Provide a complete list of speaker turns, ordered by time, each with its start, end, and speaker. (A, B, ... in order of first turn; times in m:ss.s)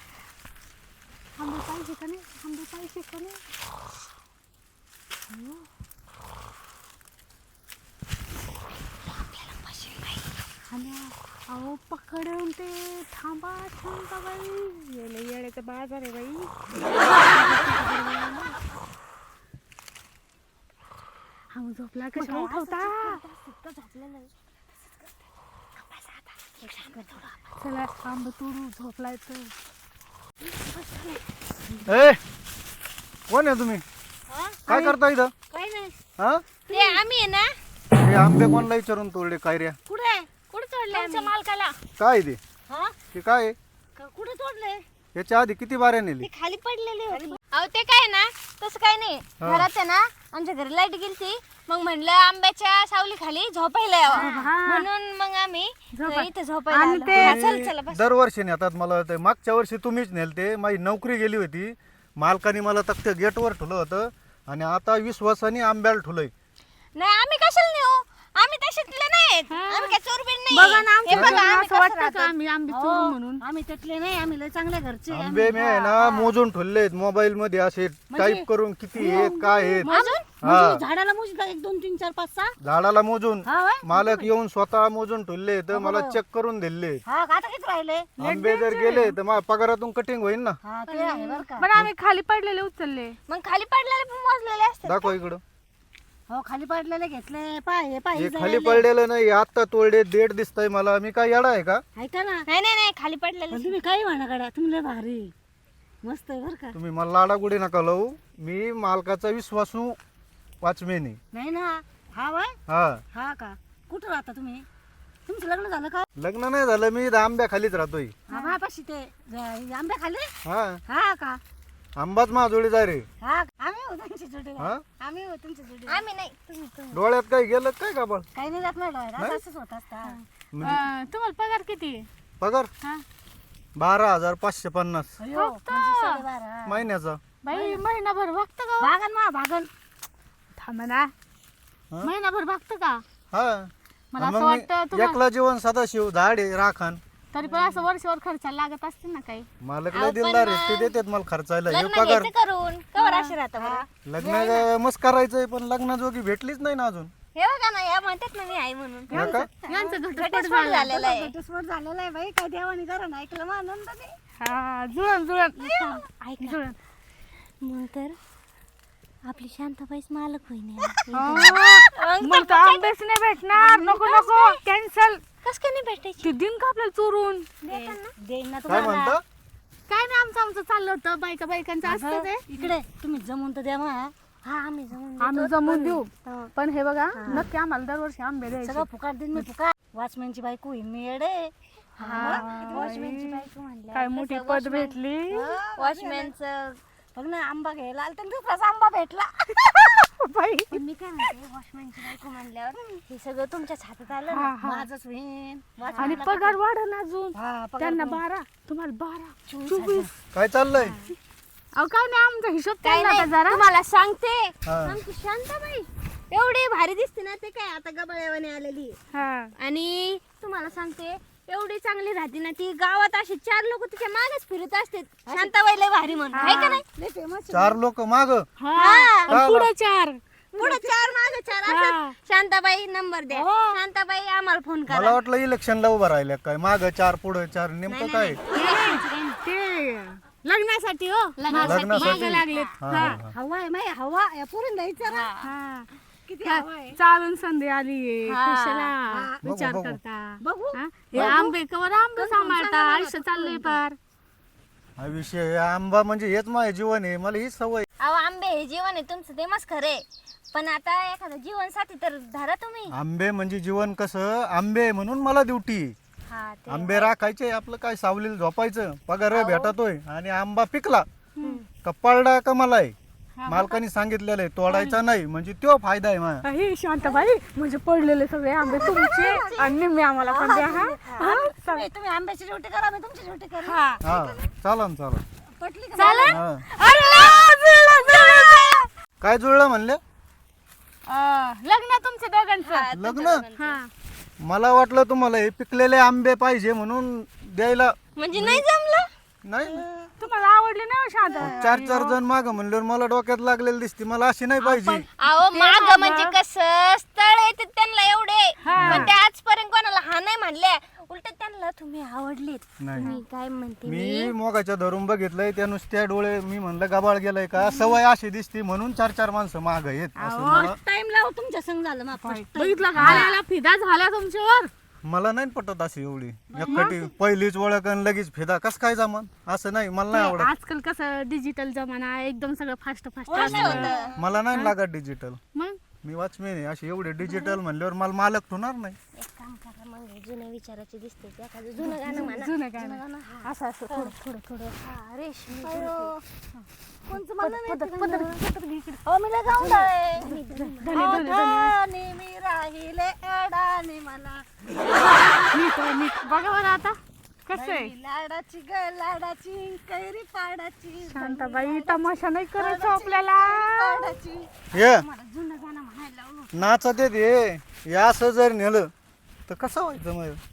0:01.4-0:03.4 A
0:05.3-0:05.7 A
0:10.7-0:16.5 A
0:17.3-0:18.6 A
0:21.5-0:23.2 A
0:22.2-0:24.3 B
0:22.4-0:24.2 C
0:26.6-0:27.2 C
0:26.6-0:27.3 B
0:27.6-0:29.5 A
0:30.6-0:31.1 B
0:31.8-0:32.2 D
0:33.3-0:33.8 D
0:34.3-0:36.0 B
0:34.7-0:35.3 D
0:36.2-0:36.4 D
0:36.7-0:37.0 B
0:36.7-0:37.6 C
0:37.9-0:39.8 D
0:39.9-0:40.3 B
0:40.5-0:41.8 A
0:40.5-0:41.3 C
0:42.0-0:42.4 D
0:42.7-0:43.0 B
0:43.1-0:43.6 D
0:44.0-0:44.8 B
0:45.1-0:46.3 D
0:46.2-0:58.0 C
0:47.1-0:47.4 B
0:49.4-0:49.7 D
0:54.1-0:54.5 B
0:54.1-0:54.8 A
0:55.9-0:57.4 A
0:57.1-1:06.3 D
1:07.0-1:12.3 C
1:09.5-1:10.0 A
1:10.5-1:13.4 A
1:11.1-1:11.4 D
1:12.7-1:16.3 B
1:15.1-1:20.8 D
1:18.1-1:22.5 B
1:19.8-1:20.3 C
1:22.6-1:27.0 D
1:23.4-1:24.3 B
1:25.7-1:26.2 B
1:27.0-1:28.1 B
1:28.2-1:29.1 A
1:28.2-1:30.6 D
1:30.6-1:31.7 B
1:30.9-1:31.4 C
1:31.5-1:33.2 A
1:33.3-1:35.2 C
1:34.8-1:35.4 D
1:36.3-1:38.8 B
1:38.1-1:41.8 D
1:42.0-1:42.5 B
1:42.5-1:43.8 C
1:43.5-1:45.3 B
1:46.0-1:46.8 B
1:46.7-1:50.0 D
1:50.6-1:51.2 D
1:51.3-1:52.6 B
1:52.7-1:53.0 D
1:53.1-1:54.6 B
1:55.3-1:56.1 B
1:56.2-1:58.2 D
1:58.3-2:00.3 B
2:00.4-2:00.8 D
2:00.9-2:01.4 B
2:02.0-2:03.0 D
2:03.2-2:06.0 B
2:05.9-2:07.0 C
2:06.9-2:08.3 D
2:08.3-2:10.2 B
2:10.0-2:12.1 A
2:10.5-2:10.8 D
2:12.4-2:12.7 D
2:13.8-2:15.2 D
2:15.2-2:16.8 B
2:15.3-2:16.2 A
2:16.7-2:17.2 D
2:17.4-2:18.9 A
2:17.5-2:17.8 B
2:18.8-2:19.7 B
2:20.6-2:21.1 A
2:22.0-2:23.0 A
2:23.3-2:27.0 D
2:24.1-2:25.2 A
2:27.3-2:29.5 A
2:27.4-2:27.8 B
2:29.6-2:32.3 D
2:29.9-2:30.9 C
2:31.7-2:33.9 C
2:32.9-2:33.4 A
2:33.6-2:34.7 B
2:34.0-2:37.1 D
2:37.3-2:39.3 C
2:39.1-2:41.0 A
2:39.1-2:39.5 D
2:39.3-2:39.9 B
2:39.9-2:41.3 C
2:40.9-2:44.1 B
2:44.4-2:45.8 A
2:45.6-2:46.6 C
2:46.4-2:46.8 A
2:47.6-2:48.2 C
2:49.2-2:52.9 C
2:51.1-2:55.2 A
2:53.5-2:54.6 C
2:55.4-2:56.3 C
2:56.2-2:57.5 A
2:57.6-2:58.1 C
2:57.7-2:59.2 B
2:58.7-2:59.2 D
2:59.9-3:02.5 A
3:01.8-3:04.1 B
3:04.4-3:06.0 C
3:05.2-3:08.8 A
3:07.1-3:07.5 B
3:08.6-3:13.0 B
3:12.0-3:15.0 C
3:12.0-3:15.6 A
3:15.3-3:16.3 B
3:15.7-3:16.8 C
3:17.1-3:19.9 B
3:19.9-3:20.8 A
3:20.7-3:24.5 C
3:24.3-3:24.8 A
3:24.6-3:26.4 B
3:25.8-3:26.6 C
3:26.0-3:30.1 A
3:27.3-3:28.2 B
3:29.5-3:30.1 B
3:30.3-3:31.0 D
3:30.7-3:31.1 C
3:31.8-3:33.6 A
3:32.8-3:39.0 C
3:34.6-3:35.0 D
3:39.1-3:39.5 A
3:39.6-3:46.8 C
3:45.3-3:45.5 B
3:46.3-3:47.8 B
3:46.3-3:46.8 A
3:47.5-3:48.5 D
3:48.6-3:50.2 A
3:48.8-3:49.4 C
3:49.3-3:49.7 D
3:50.5-3:55.2 C
3:50.6-3:51.1 B
3:51.6-3:52.1 A
3:53.3-3:53.8 B
3:54.9-3:58.4 D
3:57.9-3:59.4 C
3:58.5-4:03.2 A
4:01.4-4:03.1 C
4:01.6-4:03.3 D
4:03.1-4:05.3 B
4:05.0-4:05.5 C
4:05.4-4:05.9 A
4:06.3-4:07.0 B
4:06.4-4:14.0 A
4:08.3-4:08.9 C
4:09.1-4:09.4 B
4:09.4-4:10.0 D
4:10.4-4:11.5 B
4:12.2-4:13.8 B
4:15.0-4:17.9 D
4:18.0-4:22.9 C
4:22.9-4:25.9 D
4:26.3-4:27.1 C
4:26.7-4:31.0 D
4:29.3-4:29.7 C
4:31.4-4:31.6 A
4:31.8-4:32.9 D
4:33.4-4:33.8 A
4:33.5-4:36.4 D
4:34.7-4:35.0 A
4:36.4-4:41.9 A
4:37.0-4:37.3 B
4:38.6-4:44.5 B
4:43.6-4:44.0 A
4:44.0-4:45.2 D
4:45.6-4:46.4 B
4:46.0-4:48.8 C
4:46.0-4:48.8 A
4:46.3-4:46.6 D
4:49.2-4:50.0 D
4:51.0-4:52.9 A
4:52.6-4:53.8 C
4:52.9-4:53.4 D
4:53.6-4:53.9 A
4:54.4-4:58.6 D
4:58.2-4:59.1 C
4:59.4-4:59.8 D
4:59.7-5:00.1 B
5:00.2-5:02.2 A
5:01.4-5:05.1 D
5:04.6-5:06.4 A
5:05.2-5:14.3 C
5:08.6-5:09.1 A
5:08.8-5:09.1 D
5:12.8-5:13.1 D
5:13.8-5:20.8 D
5:20.2-5:20.7 A
5:20.6-5:23.4 B
5:22.2-5:24.7 A
5:23.0-5:23.2 C
5:25.0-5:30.5 D
5:26.5-5:27.1 B
5:26.7-5:27.0 A
5:30.1-5:33.9 A
5:33.3-5:34.3 B
5:33.3-5:34.1 C
5:33.4-5:35.4 D
5:36.0-5:39.0 D
5:37.2-5:37.6 A
5:39.1-5:42.5 C
5:41.8-5:44.8 A
5:42.8-5:43.5 B
5:44.8-5:46.1 C
5:45.6-5:46.2 B
5:46.5-5:49.0 A
5:47.0-5:48.4 B
5:49.0-5:50.4 B
5:49.5-5:51.2 C
5:50.5-5:51.8 A
5:50.9-5:54.4 B
5:55.5-5:57.9 A
5:57.5-6:06.3 B
6:01.0-6:04.2 A
6:04.7-6:05.0 D
6:06.5-6:08.9 D
6:09.5-6:10.4 D